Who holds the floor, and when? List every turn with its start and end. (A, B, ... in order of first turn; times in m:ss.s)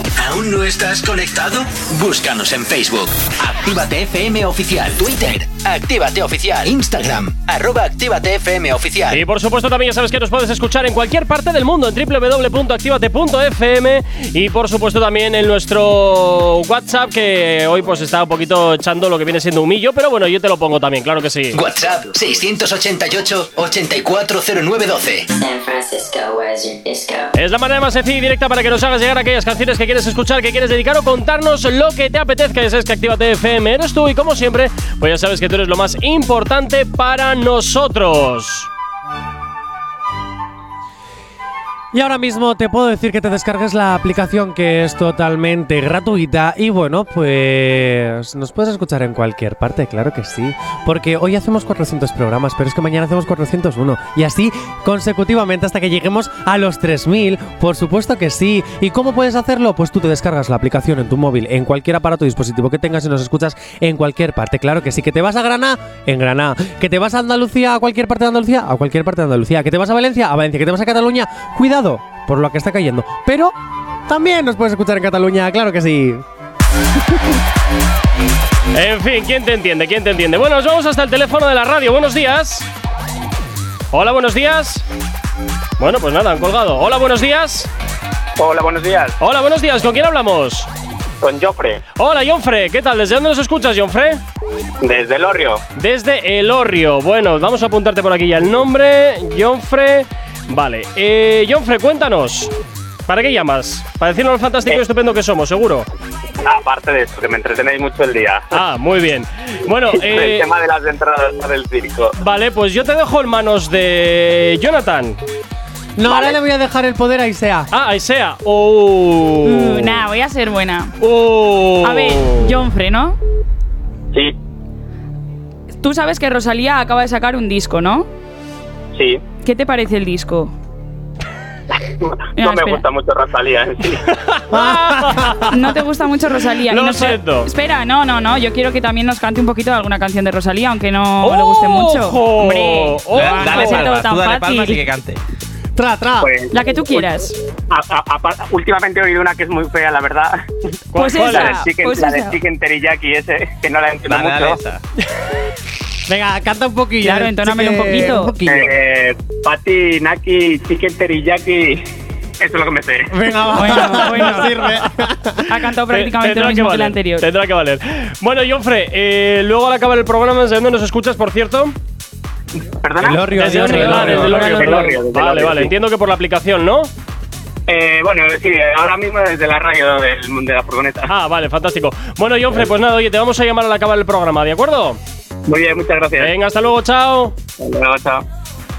0:00.1-0:09.2 A
0:09.1-0:21.6 B
0:21.5-0:25.3 A
0:25.4-0:27.3 C
0:27.3-0:38.7 B
0:41.9-1:13.5 D
1:14.1-1:16.2 D
1:18.7-1:22.7 B
1:23.9-1:24.8 B
1:25.8-1:27.7 B
1:28.4-1:29.1 E
1:29.2-1:30.7 B
1:31.2-1:31.8 E
1:32.0-1:34.2 B
1:34.8-1:35.6 E
1:35.7-1:42.5 B
1:43.1-1:45.9 B
1:46.4-1:48.6 E
1:48.5-1:50.5 B
1:49.9-1:52.1 E
1:52.2-1:55.2 B
1:56.0-1:57.7 D
1:57.7-2:00.0 B
1:59.4-2:00.9 F
2:01.0-2:02.5 B
2:01.8-2:03.2 F
2:05.8-2:08.1 F
2:08.9-2:09.2 E
2:09.4-2:10.5 F
2:12.0-2:14.0 E
2:12.4-2:12.8 F
2:14.1-2:15.5 B
2:14.5-2:15.5 D
2:15.5-2:24.9 F
2:16.7-2:17.5 B
2:21.2-2:23.9 B
2:23.1-2:25.2 G
2:25.8-2:26.3 D
2:26.2-2:27.1 E
2:26.5-2:27.4 F
2:27.7-2:30.4 E
2:30.9-2:31.6 B
2:30.9-2:32.4 F
2:31.0-2:34.6 E
2:34.1-2:34.8 G
2:36.1-2:38.7 D
2:37.0-2:38.3 F
2:38.4-2:41.8 E
2:42.4-2:43.1 E
2:43.1-2:45.6 D
2:43.5-2:44.6 F
2:45.5-2:47.3 F
2:45.9-2:51.7 B
2:52.8-2:55.7 E
2:53.0-2:54.6 D
2:53.4-2:56.9 B
2:53.8-2:54.9 F
2:57.7-3:01.1 E
3:01.0-3:05.0 B
3:05.5-3:06.3 E
3:06.2-3:07.3 B
3:07.6-3:08.2 E